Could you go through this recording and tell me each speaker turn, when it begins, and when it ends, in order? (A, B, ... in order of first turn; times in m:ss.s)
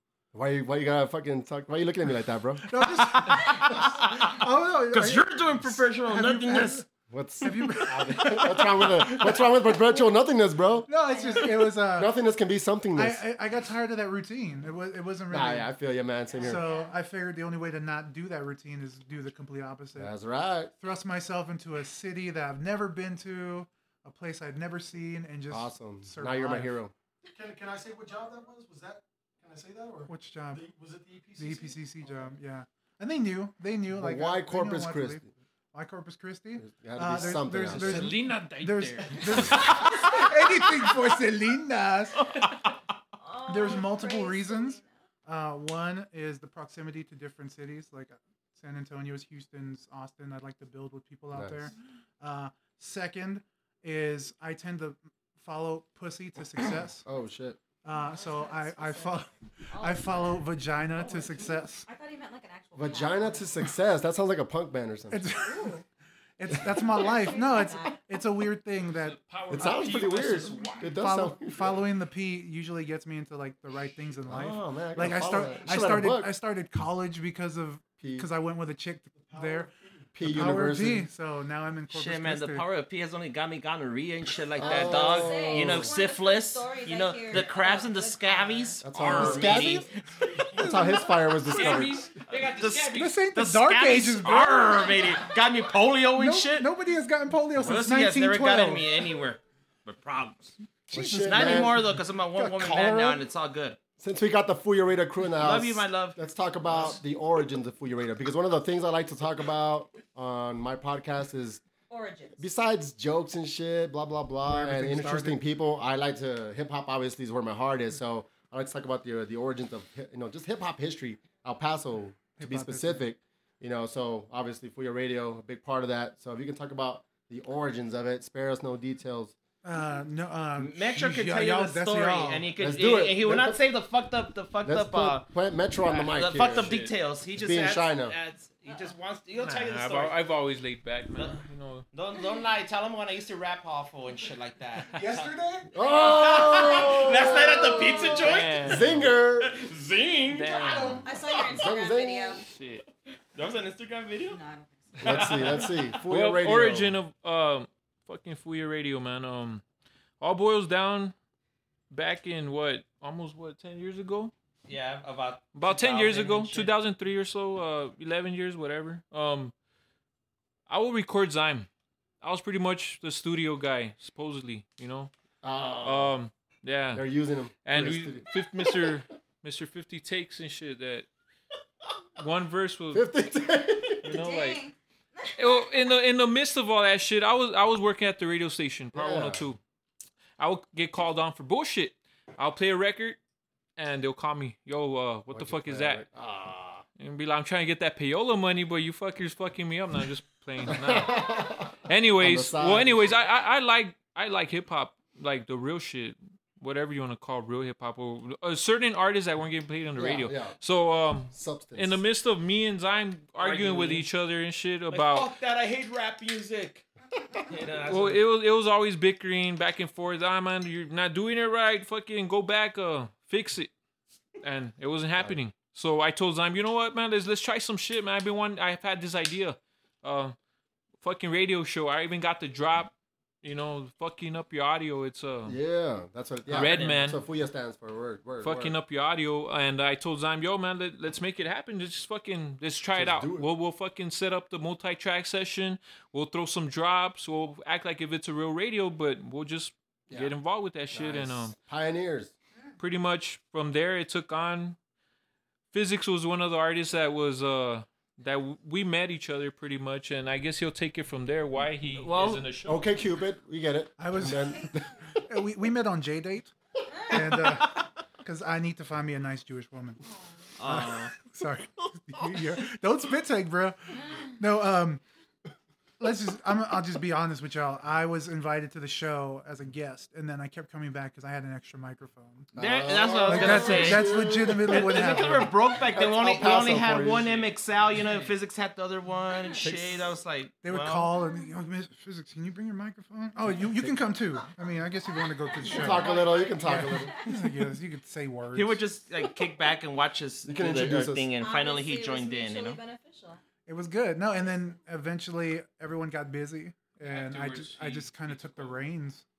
0:00.3-0:02.7 A
0:02.6-0:06.9 B
0:04.9-0:06.8 C
0:07.1-0:10.9 A
0:07.4-0:10.0 B
0:10.9-0:12.1 B
0:11.1-0:11.6 D
0:11.7-0:13.2 A
0:13.0-0:15.7 B
0:15.3-0:16.6 A
0:16.3-0:16.9 D
0:16.4-0:20.1 B
0:20.0-0:20.7 A
0:20.8-0:26.8 B
0:25.5-0:26.9 A
0:27.2-0:32.4 E
0:30.1-0:30.6 B
0:31.4-0:42.4 B
0:33.9-0:35.3 A
0:36.6-0:38.2 A
0:37.7-0:39.8 F
0:43.2-0:44.9 D
0:43.5-0:57.0 B
0:51.3-0:51.7 A
0:57.0-0:57.6 A
0:57.8-1:01.9 B
0:57.9-0:59.2 D
0:59.7-1:00.4 D
1:00.9-1:01.6 E
1:01.8-1:03.7 D
1:02.8-1:05.3 A
1:05.1-1:05.8 B
1:05.4-1:05.8 D
1:06.4-1:09.2 B
1:06.9-1:08.0 D
1:08.9-1:11.0 F
1:09.5-1:11.8 A
1:09.8-1:10.7 E
1:10.8-1:19.7 B
1:14.3-1:16.3 A
1:18.0-1:18.3 A
1:19.2-1:20.1 E
1:20.2-1:21.1 A
1:20.2-1:22.6 B
1:21.9-1:29.9 C
1:24.6-1:25.9 A
1:24.6-1:28.8 D
1:28.8-1:29.9 A
1:29.0-1:29.8 F
1:30.5-1:31.4 B
1:30.6-1:32.2 A
1:31.5-1:33.3 F
1:32.3-1:36.7 C
1:32.9-1:35.2 B
1:36.2-1:38.9 B
1:37.6-1:40.5 C
1:40.9-1:43.2 B
1:40.9-1:41.7 A
1:41.2-1:43.8 C
1:44.0-1:51.6 A
1:45.4-1:46.2 C
1:51.9-1:52.4 D
1:52.4-2:09.3 A
1:54.5-1:55.4 B
2:02.4-2:03.0 B
2:09.6-2:12.5 B
2:10.6-2:15.3 C
2:12.6-2:13.6 A
2:14.6-2:16.8 A
2:15.8-2:16.9 F
2:16.0-2:20.2 C
2:17.4-2:18.2 A
2:19.4-2:21.9 F
2:21.2-2:30.7 C
2:24.9-2:25.7 B
2:25.7-2:29.6 A
2:28.2-2:29.1 F
2:30.3-2:31.0 F
2:30.5-2:31.1 B
2:31.0-2:32.4 D
2:31.5-2:32.4 A
2:32.4-2:32.8 F
2:33.3-2:34.4 C
2:34.3-2:35.2 D
2:35.0-2:36.0 C
2:35.0-2:37.0 A
2:36.1-2:39.6 F
2:40.2-2:41.1 F
2:41.9-2:44.3 F
2:44.7-2:46.7 C
2:45.5-2:49.5 F
2:50.7-2:51.7 F
2:52.2-2:55.1 F
2:55.4-2:56.1 A
2:55.8-2:57.1 F
2:56.9-2:58.9 A
2:57.6-3:01.1 F
3:02.2-3:03.1 F
3:02.9-3:04.2 A
3:04.0-3:04.6 F
3:04.1-3:05.7 D
3:05.4-3:09.6 F
3:08.9-3:09.5 A
3:10.4-3:13.2 F
3:13.8-3:16.0 F
3:15.3-3:16.8 A
3:17.0-3:35.3 F
3:20.7-3:23.2 A
3:30.0-3:30.6 A
3:31.3-3:32.0 A
3:33.4-3:34.1 C
3:34.9-3:36.8 C
3:37.4-3:38.2 C
3:37.9-3:43.7 F
3:44.4-3:50.4 F
3:51.0-3:55.6 F
3:55.5-3:58.8 A
3:56.5-3:57.2 F
3:56.5-3:57.0 C
3:58.4-4:11.6 F
4:02.9-4:03.5 A
4:10.1-4:10.4 A
4:10.9-4:12.3 A
4:12.8-4:14.8 F
4:15.7-4:22.9 F
4:21.9-4:22.4 C
4:22.6-4:25.2 A
4:24.0-4:26.5 B
4:27.1-4:30.0 B
4:30.6-4:31.1 C
4:30.6-4:35.0 B
4:36.0-4:42.5 B
4:42.5-4:45.3 A
4:42.6-4:51.1 C
4:43.3-4:45.6 B
4:45.9-4:47.4 A
4:49.6-4:50.0 A
4:50.6-4:58.8 B
4:55.6-4:57.2 D
4:55.7-4:57.3 A
4:58.5-5:02.8 C
5:00.5-5:01.3 A
5:01.4-5:03.4 D
5:03.7-5:09.2 B
5:07.1-5:08.8 F